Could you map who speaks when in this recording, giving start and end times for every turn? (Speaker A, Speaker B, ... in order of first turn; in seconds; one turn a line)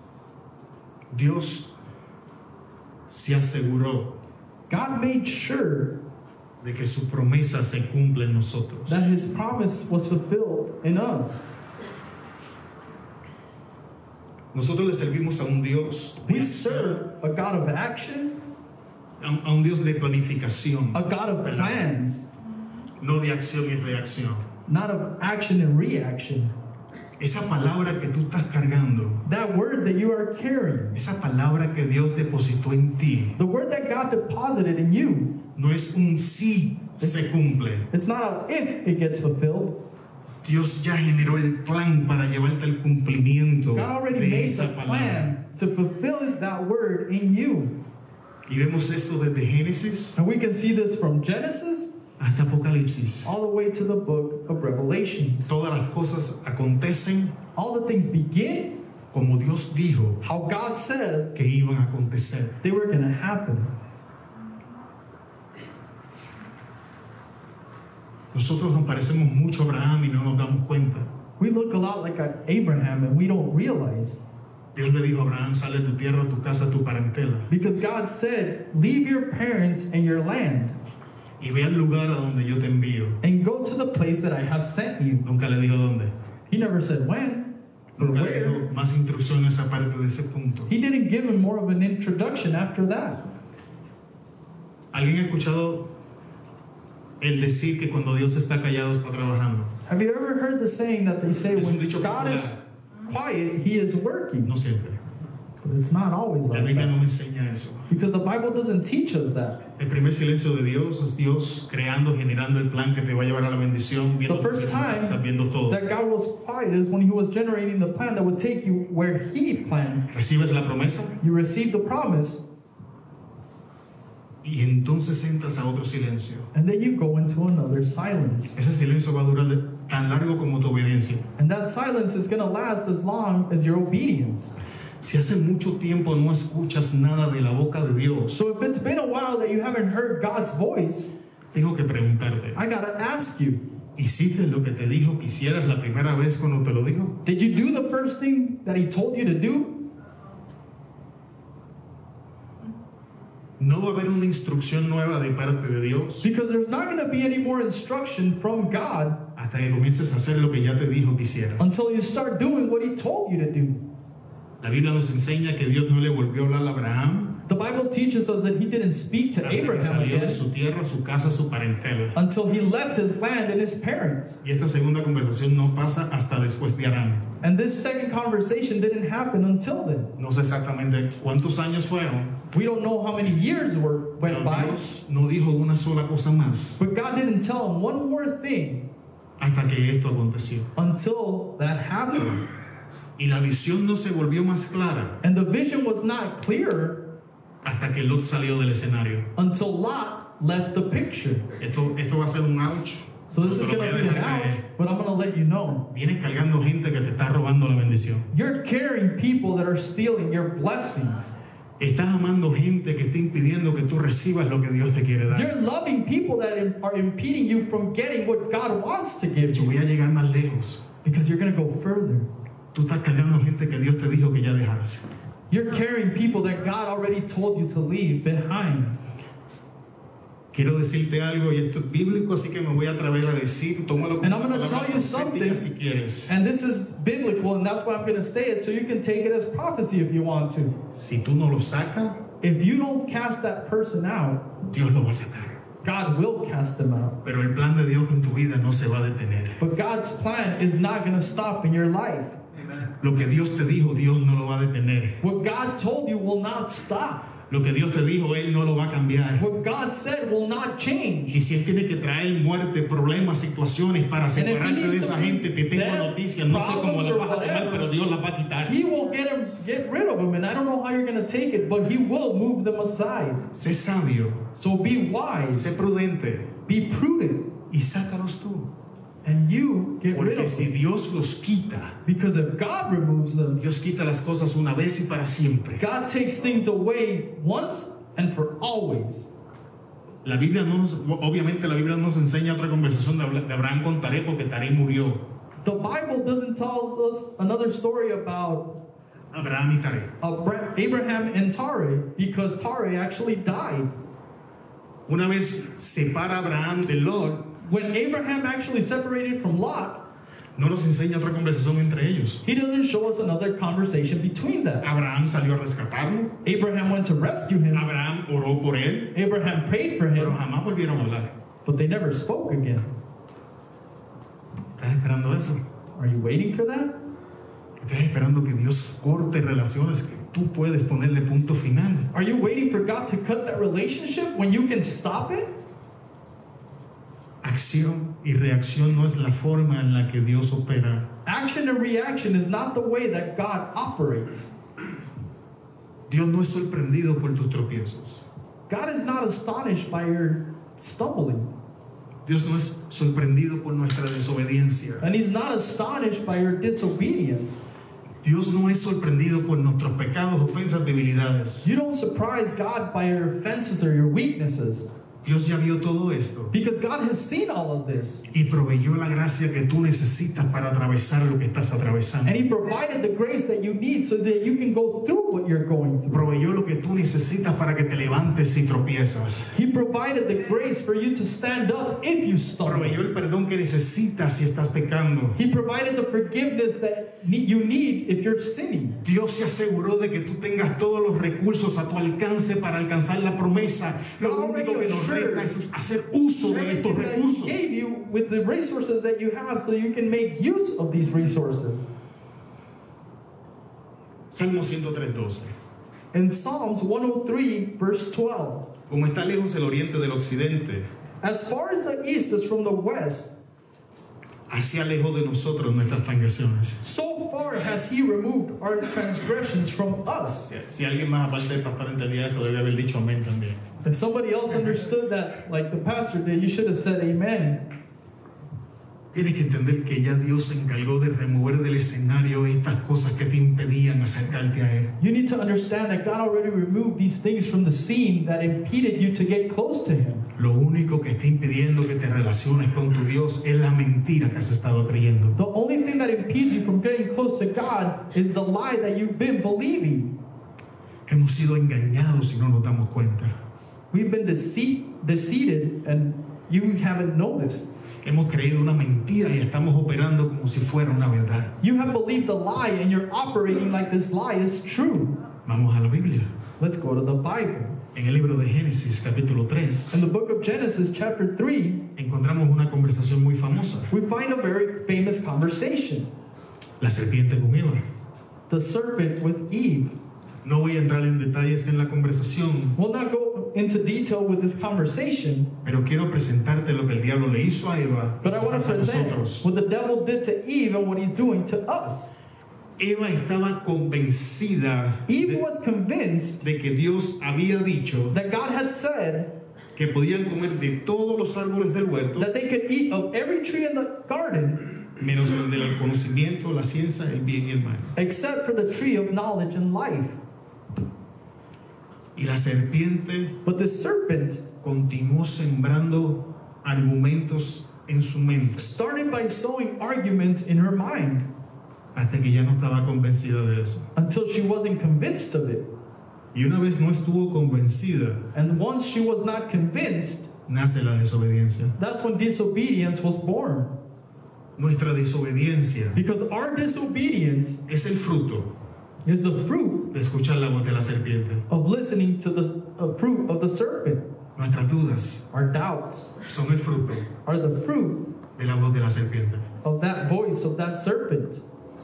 Speaker A: 1.1-1.8
Speaker A: 3.1-4.2
Speaker B: 4.7-6.0
Speaker A: 6.6-9.1
Speaker B: 8.9-11.5
Speaker A: 14.5-17.0
Speaker B: 16.2-18.4
Speaker A: 19.2-21.9
Speaker B: 20.9-22.2
Speaker A: 23.0-24.5
Speaker B: 24.7-26.5
Speaker A: 27.2-29.2
Speaker B: 29.2-31.0
Speaker A: 30.9-33.4
Speaker B: 33.4-35.4
Speaker A: 35.5-37.9
Speaker B: 37.0-37.3
Speaker B: 37.9-39.8
Speaker A: 40.4-45.3
Speaker B: 43.7-47.8
Speaker A: 48.5-50.2
Speaker B: 50.1-51.9
Speaker A: 52.2-53.3
Speaker B: 53.2-55.5
Speaker A: 55.5-57.4
Speaker B: 57.5-58.8
Speaker A: 59.1-60.2
Speaker B: 60.2-61.4
Speaker A: 61.3-62.6
Speaker B: 62.6-63.7
Speaker A: 68.3-71.1
Speaker B: 71.4-74.2
Speaker A: 74.7-77.5
Speaker B: 77.5-80.8
Speaker A: 81.4-83.2
Speaker B: 83.2-85.3
Speaker A: 85.2-86.1
Speaker B: 86.5-88.6
Speaker A: 88.0-90.7
Speaker B: 90.7-93.2
Speaker A: 94.9-95.9
Speaker A: 97.2-99.7
Speaker B: 99.8-104.5
Speaker A: 101.5-102.6
Speaker A: 104.4-105.0
Speaker B: 105.6-106.9
Speaker A: 106.5-107.8
Speaker B: 107.9-109.6
Speaker A: 109.8-115.8
Speaker B: 114.3-120.1
Speaker A: 120.1-121.2
Speaker B: 121.2-122.5
Speaker A: 124.4-126.5
Speaker B: 126.5-128.6
Speaker A: 128.5-131.2
Speaker B: 131.4-134.5
Speaker A: 135.0-138.4
Speaker B: 138.3-141.1
Speaker A: 141.5-142.6
Speaker B: 142.5-143.6
Speaker A: 143.9-147.2
Speaker B: 147.2-149.9
Speaker A: 153.6-156.3
Speaker B: 156.2-159.2
Speaker A: 159.3-161.7
Speaker B: 161.6-163.8
Speaker A: 164.6-167.4
Speaker B: 167.4-170.4
Speaker A: 169.4-172.1
Speaker B: 172.1-174.4
Speaker A: 174.4-177.2
Speaker B: 177.4-180.1
Speaker A: 180.2-182.3
Speaker B: 182.5-184.8
Speaker A: 184.2-186.8
Speaker B: 186.8-188.9
Speaker A: 189.4-190.7
Speaker B: 190.8-192.4
Speaker A: 193.2-195.2
Speaker B: 195.2-197.1
Speaker A: 197.6-199.3
Speaker B: 199.3-201.5
Speaker A: 201.6-204.6
Speaker B: 203.3-205.9
Speaker A: 205.9-208.3
Speaker B: 208.3-211.3
Speaker A: 211.8-215.5
Speaker B: 215.3-219.7
Speaker A: 219.5-220.8
Speaker B: 221.0-222.3
Speaker A: 222.7-225.0
Speaker B: 225.5-229.0
Speaker A: 230.5-236.3
Speaker B: 234.2-235.7
Speaker B: 236.3-240.8
Speaker A: 240.9-242.2
Speaker B: 242.4-244.6
Speaker A: 244.7-245.6
Speaker B: 245.8-247.2
Speaker A: 247.2-249.6
Speaker B: 249.6-252.3
Speaker A: 253.0-255.2
Speaker B: 255.2-257.3
Speaker A: 257.5-259.4
Speaker B: 259.4-261.4
Speaker A: 261.3-268.8
Speaker B: 264.3-267.9
Speaker B: 268.6-273.4
Speaker A: 273.5-274.4
Speaker B: 274.5-275.7
Speaker A: 275.5-276.5
Speaker B: 276.6-277.5
Speaker A: 277.7-278.7
Speaker B: 279.2-280.7
Speaker A: 280.1-282.0
Speaker B: 282.0-283.6
Speaker A: 283.6-285.8
Speaker B: 285.8-289.3
Speaker A: 290.2-295.2
Speaker B: 295.6-298.8
Speaker A: 299.3-300.1
Speaker B: 300.2-303.9
Speaker A: 305.1-307.5
Speaker B: 307.6-310.1
Speaker A: 310.6-312.4
Speaker B: 312.4-314.9
Speaker A: 314.8-316.4
Speaker B: 316.4-317.9
Speaker A: 317.7-319.1
Speaker B: 319.1-320.4
Speaker A: 320.1-321.3
Speaker B: 321.6-322.9
Speaker A: 324.8-325.6
Speaker B: 325.9-327.0
Speaker A: 327.8-332.1
Speaker B: 332.1-335.5
Speaker A: 337.4-341.1
Speaker B: 341.2-344.5
Speaker A: 346.1-348.2
Speaker B: 348.7-351.5
Speaker A: 352.2-355.1
Speaker B: 355.0-357.6
Speaker A: 358.2-361.7
Speaker B: 361.6-364.9
Speaker A: 365.2-366.5
Speaker B: 366.5-368.2
Speaker A: 368.3-372.4
Speaker B: 372.2-376.2
Speaker A: 376.1-379.5
Speaker B: 379.5-383.0
Speaker A: 382.6-385.4
Speaker B: 385.3-389.0
Speaker A: 389.0-397.6
Speaker B: 394.2-395.5
Speaker B: 396.4-401.9
Speaker A: 404.3-405.5
Speaker B: 406.1-408.7
Speaker A: 408.9-410.9
Speaker B: 411.2-413.4
Speaker A: 414.5-416.8
Speaker B: 416.8-420.5
Speaker A: 420.5-423.6
Speaker B: 423.8-427.6
Speaker A: 429.1-434.9
Speaker B: 435.0-440.3
Speaker A: 440.4-445.4
Speaker B: 445.3-450.1
Speaker A: 451.1-453.3
Speaker B: 453.9-457.7
Speaker A: 458.0-461.5
Speaker B: 461.6-465.2
Speaker A: 465.4-466.3
Speaker B: 466.6-467.8
Speaker A: 467.9-469.9
Speaker B: 469.9-471.9
Speaker A: 471.9-473.9
Speaker B: 473.9-476.1
Speaker A: 476.8-477.8
Speaker B: 478.5-479.9
Speaker A: 480.4-482.8
Speaker B: 482.8-485.5
Speaker A: 485.6-489.5
Speaker B: 488.2-492.1
Speaker A: 492.8-495.4
Speaker B: 495.1-496.4
Speaker A: 496.4-498.1
Speaker B: 498.1-499.3
Speaker A: 499.8-502.3
Speaker B: 502.2-504.7
Speaker A: 505.0-507.9
Speaker B: 507.9-510.2
Speaker A: 512.1-513.4
Speaker B: 513.4-514.5
Speaker A: 514.6-518.7
Speaker B: 518.5-521.3
Speaker A: 521.9-523.9
Speaker B: 523.9-525.7
Speaker A: 526.3-528.3
Speaker B: 528.3-530.3
Speaker A: 530.5-531.7
Speaker B: 531.8-533.7
Speaker A: 534.6-536.0
Speaker B: 535.9-537.6
Speaker A: 537.7-538.5
Speaker B: 539.0-539.9
Speaker A: 539.9-541.4
Speaker B: 541.5-544.1
Speaker A: 544.4-545.2
Speaker B: 545.3-546.1
Speaker A: 546.2-547.1
Speaker B: 547.2-548.2
Speaker A: 548.4-549.5
Speaker B: 549.6-551.4